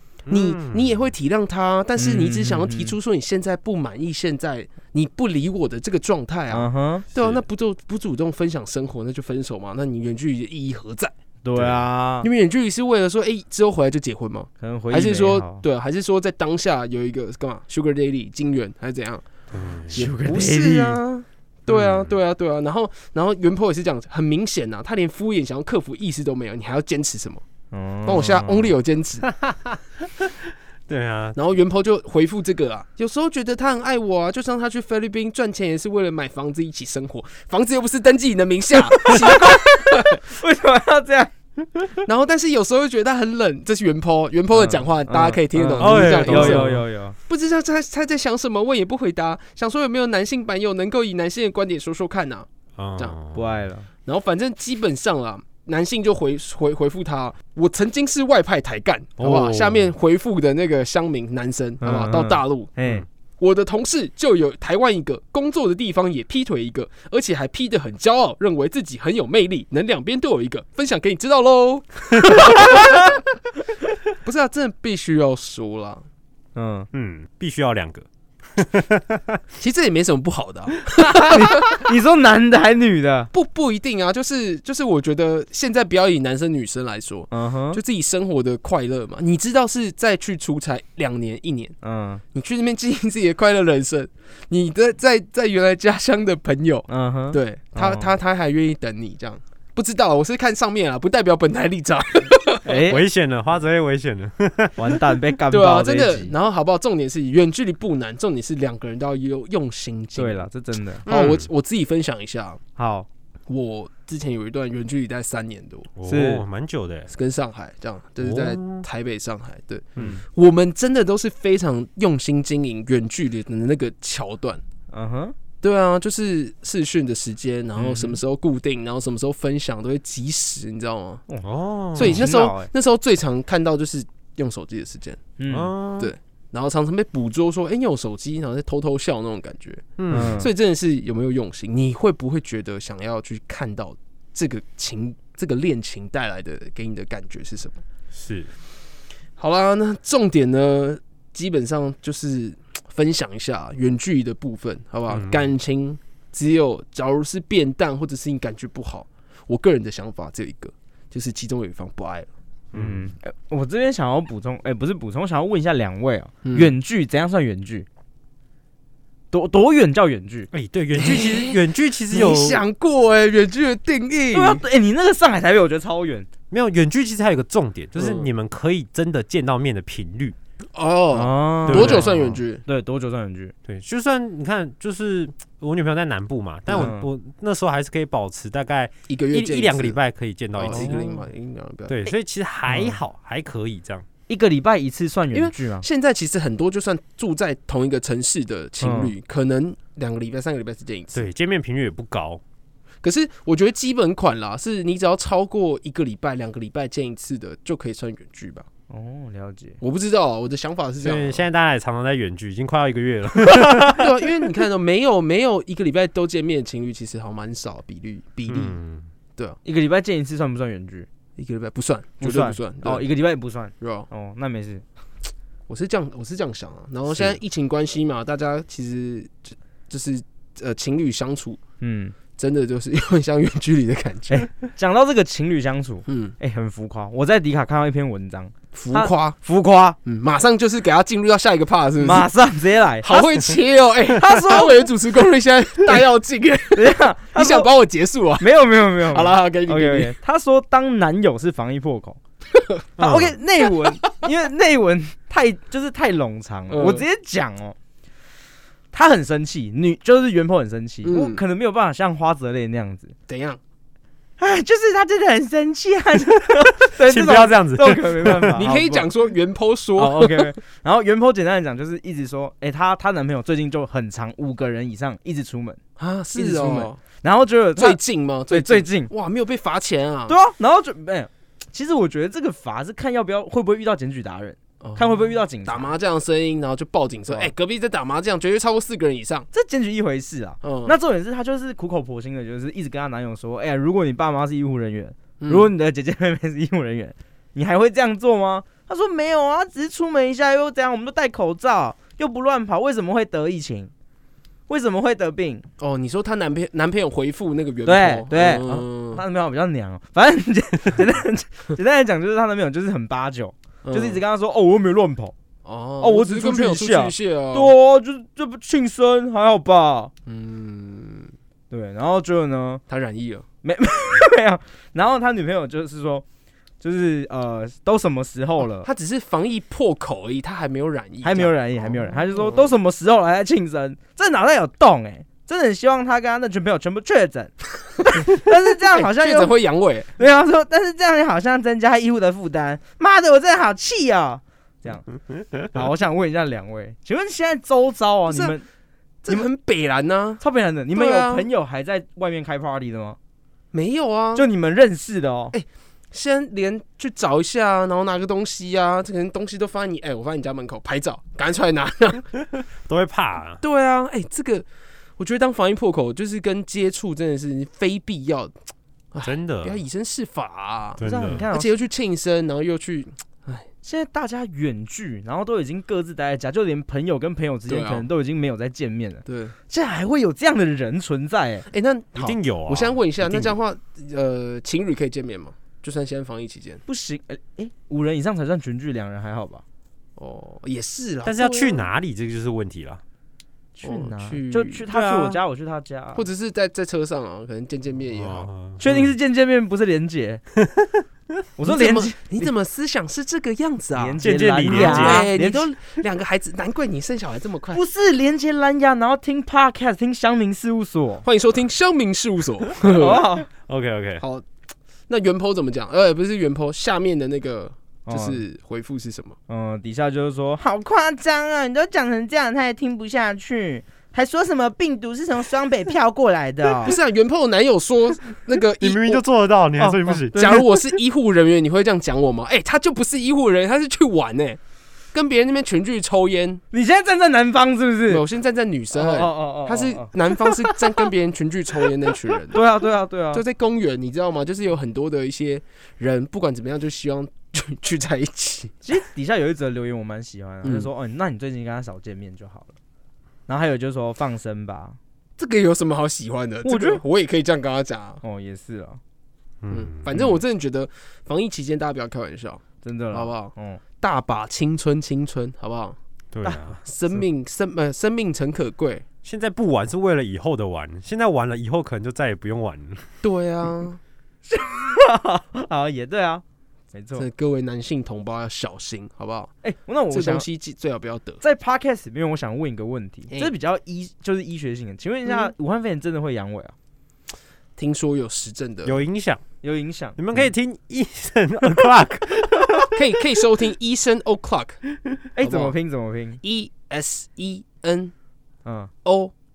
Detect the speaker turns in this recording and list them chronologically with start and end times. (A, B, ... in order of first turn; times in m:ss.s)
0:00.3-0:01.0 A
0:00.3-0:11.1 B
0:02.0-0:03.0 C
0:06.5-0:07.0 C
0:07.2-0:07.4 A
0:11.4-0:12.3 C
0:11.6-0:11.8 A
0:12.2-0:19.3 B
0:14.6-0:15.6 C
0:19.5-0:20.0 A
0:19.9-0:27.4 B
0:19.9-0:21.0 C
0:21.7-0:22.2 A
0:27.7-0:28.7 C
0:28.0-0:29.3 B
0:29.2-0:30.4 A
0:30.9-0:31.4 A
0:31.4-0:40.2 B
0:39.0-0:41.8 C
0:42.0-0:53.2 B
0:44.5-0:47.2 C
0:45.8-0:46.8 A
0:52.8-0:53.5 A
0:53.3-0:53.9 C
0:54.1-1:02.7 B
0:59.2-0:59.9 A
1:01.8-1:03.0 C
1:03.4-1:13.2 B
1:12.6-1:12.9 C
1:14.2-1:16.1 B
1:16.6-1:16.9 C
1:16.9-1:19.4 A
1:19.6-1:21.8 B
1:21.3-1:23.3 C
1:23.3-1:31.8 B
1:27.3-1:27.8 C
1:31.8-1:32.2 C
1:32.3-1:42.6 B
1:36.9-1:38.1 C
1:42.6-1:43.0 C
1:42.9-1:45.0 A
1:44.8-1:46.3 C
1:45.5-1:50.5 B
1:50.2-1:51.1 C
1:51.0-1:52.6 B
1:51.0-1:51.5 A
1:52.8-1:53.1 C
1:53.5-1:55.9 B
1:56.0-1:57.1 A
1:56.0-1:56.4 C
1:57.1-2:04.6 B
1:58.2-1:58.8 A
2:00.0-2:00.2 C
2:04.9-2:05.4 C
2:05.6-2:11.2 B
2:07.8-2:08.2 C
2:11.4-2:12.3 A
2:12.0-2:15.3 B
2:12.0-2:12.7 C
2:15.4-2:15.7 C
2:15.5-2:16.1 A
2:16.0-2:27.8 B
2:20.0-2:20.4 A
2:20.1-2:20.5 C
2:28.1-2:28.5 A
2:29.4-2:42.3 B
2:35.1-2:35.5 A
2:42.7-2:43.1 A
2:42.7-2:47.9 C
2:46.4-2:46.7 B
2:49.3-2:50.5 C
2:50.5-2:52.6 A
2:50.9-2:51.6 B
2:52.1-2:54.6 B
2:54.3-2:56.3 C
2:56.5-3:00.4 A
2:58.0-2:58.3 B
3:00.7-3:02.6 B
3:01.1-3:03.5 C
3:01.7-3:02.4 A
3:03.7-3:11.1 A
3:06.7-3:06.9 B
3:06.7-3:07.1 C
3:09.1-3:10.0 B
3:10.6-3:12.0 B
3:10.7-3:11.2 C
3:11.9-3:14.0 A
3:12.7-3:13.0 C
3:14.3-3:15.9 C
3:15.3-3:21.2 B
3:18.8-3:19.1 C
3:21.1-3:22.4 A
3:23.0-3:28.7 B
3:28.9-3:29.8 C
3:29.8-3:31.5 B
3:31.0-3:34.1 A
3:33.5-3:33.9 C
3:33.5-3:38.8 B
3:38.5-3:39.1 A
3:39.6-3:41.1 C
3:41.4-3:43.0 B
3:42.2-3:44.8 C
3:43.8-3:44.1 B
3:45.7-3:51.6 B
3:47.1-3:47.4 A
3:51.8-3:52.2 C
3:52.4-3:54.5 B
3:54.3-4:00.0 C
3:56.1-3:56.4 B
3:58.7-3:59.4 B
4:00.0-4:02.3 B
4:02.0-4:03.2 C
4:03.0-4:10.2 B
4:04.2-4:04.6 C
4:06.7-4:07.7 C
4:08.4-4:12.2 C
4:12.5-4:12.8 B
4:13.0-4:13.3 A
4:13.0-4:17.8 C
4:16.7-4:17.0 B
4:18.9-4:23.2 C
4:21.0-4:21.4 B
4:23.3-4:23.6 B
4:24.4-4:29.1 C
4:26.8-4:28.7 A
4:28.6-4:30.5 B
4:30.0-4:35.8 C
4:36.0-4:37.0 B
4:36.3-4:38.0 C
4:37.8-4:40.4 B
4:38.5-4:39.1 C
4:40.3-4:45.9 C
4:44.8-4:49.5 B
4:49.5-5:03.9 C
4:50.6-4:51.0 B
4:55.4-4:55.7 B
5:04.7-5:05.6 C
5:05.8-5:09.2 B
5:07.9-5:15.4 C
5:13.8-5:14.2 B
5:15.6-5:17.8 B
5:16.0-5:20.1 C
5:20.3-5:21.3 B
5:21.7-5:22.8 C
5:22.9-5:23.5 B
5:23.6-5:26.2 C
5:26.8-5:28.9 C
5:28.8-5:32.7 B
5:31.2-5:39.5 C
5:38.2-5:40.2 B
5:40.2-5:45.1 C
5:45.6-5:48.7 C
5:48.3-5:48.6 B
5:49.2-5:51.5 B
5:50.4-5:53.2 C
5:53.7-5:54.5 B
5:54.4-5:55.6 C
5:55.5-6:02.3 B
6:02.6-6:03.6 A
6:03.6-6:04.7 B
6:05.2-6:08.5 B
6:09.1-6:13.7 B
6:09.2-6:09.8 A
6:11.0-6:11.5 A
6:11.0-6:11.7 C
6:13.8-6:21.7 C
6:17.7-6:18.1 B
6:19.3-6:19.6 B
6:21.7-6:26.8 B
6:22.2-6:23.5 A
6:26.9-6:29.6 C
6:30.2-6:31.9 B
6:31.2-6:33.0 A
6:33.8-6:36.3 C
6:33.8-6:34.8 B
6:34.9-6:35.4 A
6:36.2-6:38.5 B
6:38.1-6:39.1 A
6:38.8-6:40.4 C
6:41.6-6:42.5 C
6:41.6-6:47.8 B
6:44.0-6:45.7 C
6:44.2-6:45.3 A
6:47.7-6:51.2 C
6:51.2-6:53.3 B
6:52.8-6:53.5 C
6:53.7-6:54.2 A
6:54.2-6:54.5 B
6:55.1-6:59.4 B
6:58.1-6:58.4 C
6:59.5-7:07.0 C
7:06.8-7:09.2 B
7:08.8-7:10.7 A
7:09.8-7:10.6 C
7:10.3-7:14.6 B
7:15.1-7:16.6 B
7:16.7-7:18.2 C
7:18.1-7:22.6 B
7:18.9-7:20.8 C
7:22.5-7:23.4 C
7:23.3-7:28.8 B
7:28.8-7:32.7 C
7:30.6-7:30.9 B
7:33.5-7:35.0 C
7:35.4-7:38.2 B
7:36.6-7:37.0 C
7:38.2-7:39.0 C
7:39.6-7:40.3 A
7:39.7-7:46.0 B
7:42.8-7:43.8 C
7:46.3-7:46.8 A
7:46.4-7:47.3 C
7:46.8-7:49.0 B
7:49.2-7:53.2 A
7:53.2-7:54.0 B
7:54.5-7:57.3 C
7:57.2-7:59.5 B
7:59.6-8:00.5 C
8:00.1-8:01.4 B
8:01.4-8:06.8 C
8:07.8-8:09.0 B
8:08.8-8:09.4 A
8:09.6-8:10.2 C
8:10.2-8:13.0 A
8:12.9-8:14.8 B
8:15.4-8:16.4 C
8:15.4-8:15.8 B
8:16.4-8:18.1 B
8:18.6-8:18.9 C
8:19.0-8:19.3 B